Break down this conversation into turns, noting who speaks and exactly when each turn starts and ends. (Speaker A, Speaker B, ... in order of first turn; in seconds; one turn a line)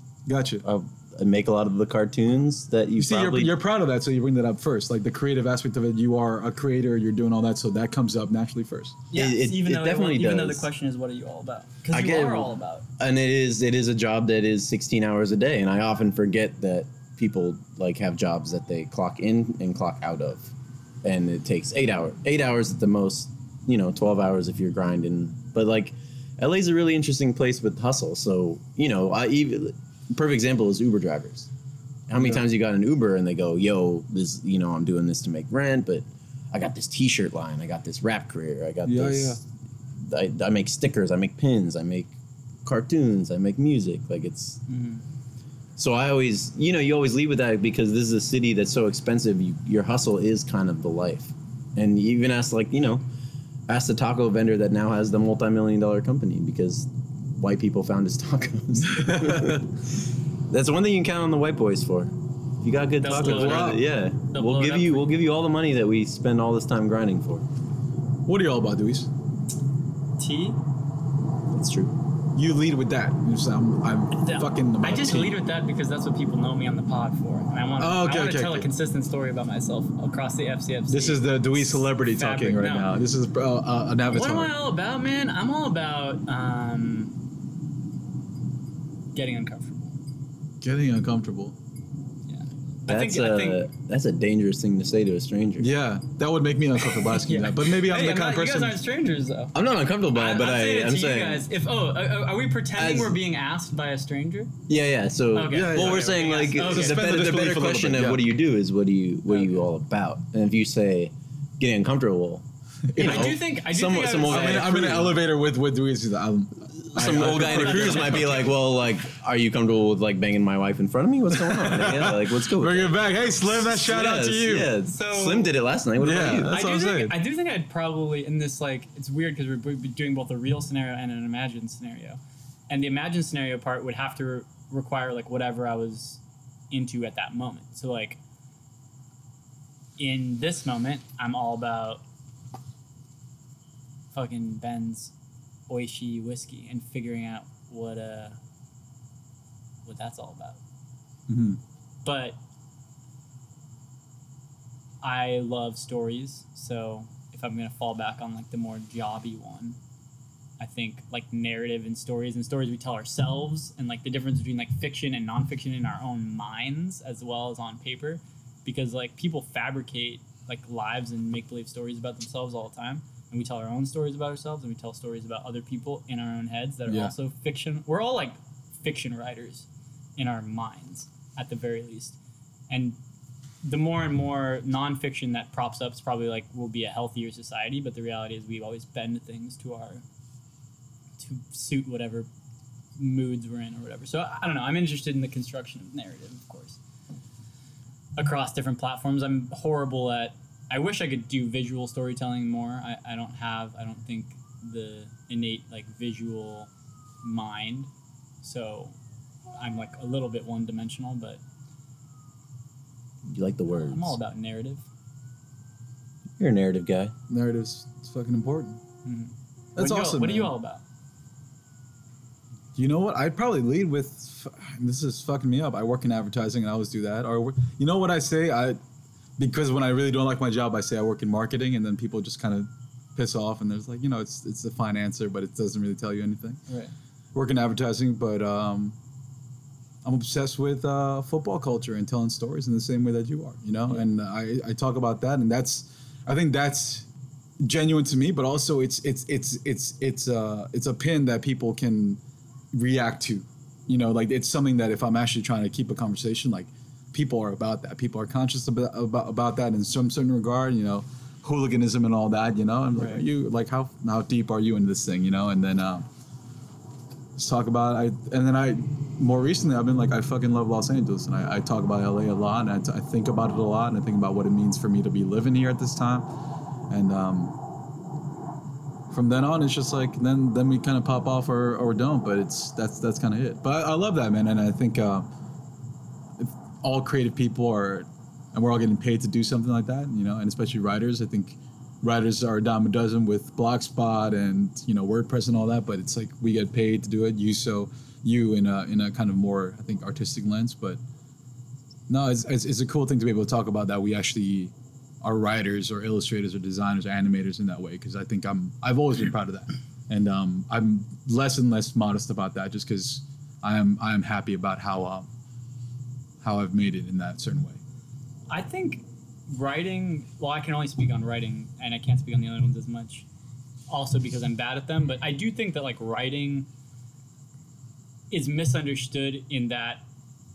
Speaker A: 0.3-0.6
Speaker B: 0.6-3.5
Speaker A: 3.0-9.0
Speaker C: 9.1-12.8
Speaker B: 9.1-10.7
Speaker B: 11.9-20.5
Speaker B: 21.0-31.5
Speaker B: 32.1-39.4
Speaker A: 32.1-32.4
Speaker A: 38.8-39.4
Speaker B: 40.0-42.1
Speaker B: 42.6-44.6
Speaker C: 44.7-45.0
Speaker B: 45.8-53.0
Speaker B: 53.7-59.8
Speaker A: 58.9-59.6
Speaker B: 60.5-67.4
Speaker C: 63.0-65.1
Speaker A: 63.1-63.8
Speaker A: 68.2-69.1
Speaker C: 70.2-70.6
Speaker B: 71.5-71.9
Speaker A: 72.3-75.4
Speaker C: 74.1-83.0
Speaker A: 77.8-78.7
Speaker A: 80.9-84.5
Speaker C: 84.1-87.2
Speaker C: 89.1-90.0
Speaker A: 90.6-91.5
Speaker C: 92.3-93.7
Speaker B: 92.9-95.7
Speaker A: 95.6-98.8
Speaker C: 96.9-99.5
Speaker B: 99.5-101.5
Speaker C: 100.1-104.5
Speaker B: 102.8-103.2
Speaker B: 104.7-115.2
Speaker C: 105.3-107.0
Speaker A: 105.5-108.2
Speaker C: 109.3-109.6
Speaker A: 112.9-113.4
Speaker C: 113.0-114.7
Speaker A: 114.3-118.5
Speaker B: 116.8-126.6
Speaker C: 117.3-118.2
Speaker A: 121.3-124.7
Speaker C: 124.9-125.5
Speaker A: 126.0-127.2
Speaker C: 126.5-132.2
Speaker C: 132.7-136.2
Speaker C: 136.7-138.2
Speaker C: 140.0-142.0
Speaker C: 144.1-145.1
Speaker C: 145.7-148.3
Speaker C: 149.8-150.6
Speaker A: 151.3-151.6
Speaker C: 152.0-152.4
Speaker C: 155.0-159.8
Speaker C: 160.6-182.2
Speaker A: 176.8-177.1
Speaker C: 182.7-183.0
Speaker C: 183.6-190.0
Speaker C: 191.2-192.3
Speaker C: 193.0-196.8
Speaker C: 198.2-206.7
Speaker C: 207.2-207.9
Speaker C: 208.4-208.9
Speaker C: 209.5-211.4
Speaker B: 213.2-214.1
Speaker C: 213.7-214.8
Speaker B: 216.4-217.1
Speaker A: 217.3-218.8
Speaker C: 219.0-220.8
Speaker A: 219.8-220.5
Speaker A: 222.8-228.8
Speaker A: 229.4-236.6
Speaker C: 236.7-236.9
Speaker A: 237.3-238.9
Speaker A: 240.0-247.1
Speaker A: 247.6-252.2
Speaker A: 252.7-266.1
Speaker A: 267.4-276.3
Speaker A: 276.9-277.6
Speaker A: 279.1-285.3
Speaker A: 286.4-301.0
Speaker A: 302.1-315.2
Speaker A: 316.4-317.8
Speaker C: 318.5-323.2
Speaker C: 323.9-326.7
Speaker C: 328.3-330.0